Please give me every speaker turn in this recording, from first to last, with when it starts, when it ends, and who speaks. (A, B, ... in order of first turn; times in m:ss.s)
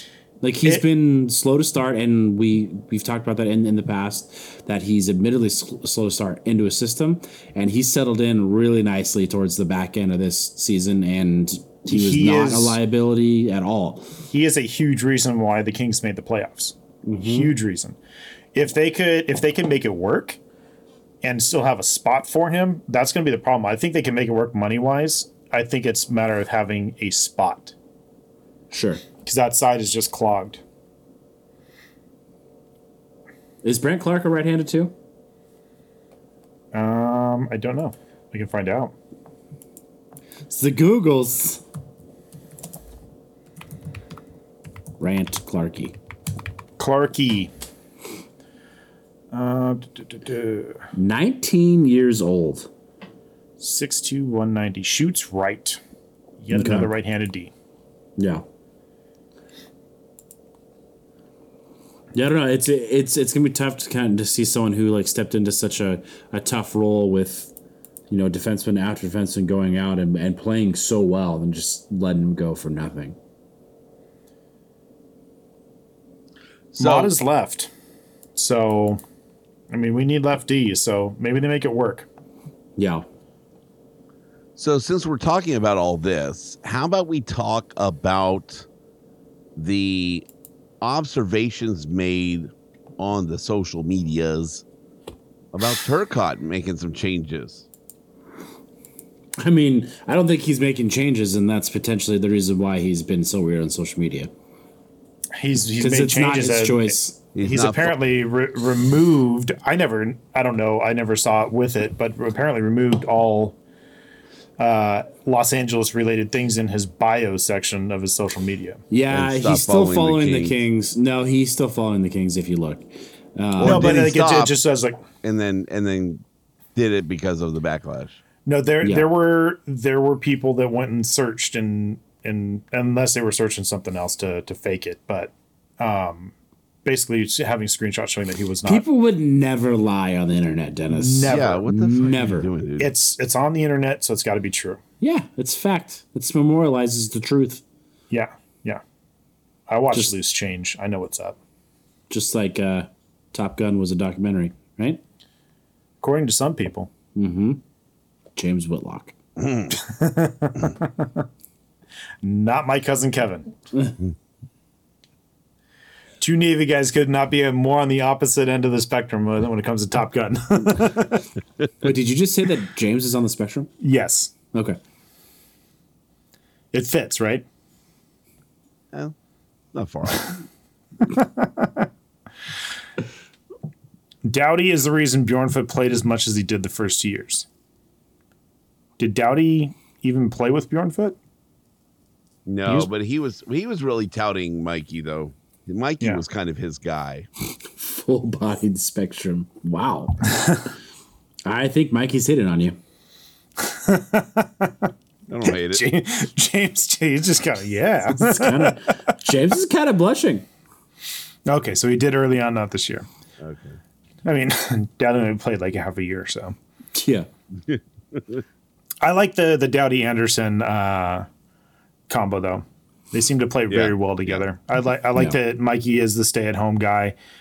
0:00.4-0:14.1 A
0:11.9-0:12.8 B
0:14.3-0:18.0 B
0:17.0-0:17.5 A
0:18.5-0:20.4 B
0:21.2-0:27.7 B
0:28.7-0:29.0 A
0:29.2-0:30.6 B
0:33.6-0:34.9 A
0:36.7-0:38.9 B
0:40.5-0:41.6 A
0:45.0-0:46.0 A
0:46.8-0:47.5 B
0:49.3-0:50.8 B
0:50.9-0:52.7 A
0:53.6-0:55.8 B
0:56.4-0:57.5 B
0:56.5-0:56.9 A
0:58.2-0:58.4 A
1:02.1-1:07.5 A
1:08.1-1:13.2 A
1:16.8-1:17.7 B
1:16.8-1:17.1 C
1:18.4-1:19.0 B
1:19.7-1:22.1 B
1:22.8-1:23.1 A
1:24.6-1:28.7 C
1:29.6-1:30.3 C
1:30.8-1:34.6 C
1:35.5-1:37.7 C
1:39.4-1:44.3 A
1:45.4-1:53.6 B
1:45.8-1:47.2 A
1:47.4-1:48.0 C
1:54.6-1:58.8 B
1:58.9-2:04.0 A
1:59.1-2:00.6 C
2:03.6-2:04.5 C
2:03.6-2:05.0 B
2:05.2-2:06.2 C
2:06.8-2:08.2 C
2:08.5-2:16.3 B
2:08.8-2:09.1 A
2:16.8-2:18.8 B
2:18.7-2:22.5 A
2:20.9-2:21.6 B
2:21.3-2:22.9 C
2:22.8-2:24.8 B
2:25.0-2:27.6 A
2:28.1-2:28.8 B
2:29.7-2:31.4 B
2:32.1-2:35.0 A
2:36.0-2:36.9 B
2:37.2-2:37.6 A
2:38.4-2:39.2 A
2:39.4-2:39.7 C
2:39.7-2:41.1 B
2:42.2-2:43.5 B
2:46.2-2:51.2 B
2:51.8-2:53.7 A
2:53.8-2:54.3 B
2:54.5-2:54.8 A
2:56.7-2:57.4 B
2:59.7-3:00.4 C
3:01.2-3:01.8 B
3:04.2-3:07.5 B
3:09.0-3:11.2 B
3:12.5-3:17.3 C
3:17.6-3:20.2 A
3:21.4-3:22.8 A
3:23.6-3:24.9 B
3:25.3-3:25.9 C
3:25.5-3:28.8 B
3:28.1-3:30.4 A
3:31.5-3:33.1 B
3:33.4-3:33.8 C
3:34.2-3:36.6 B
3:37.0-3:37.3 A
3:37.7-3:38.4 C
3:39.0-3:41.3 B
3:42.1-3:47.2 B
3:43.7-3:44.4 C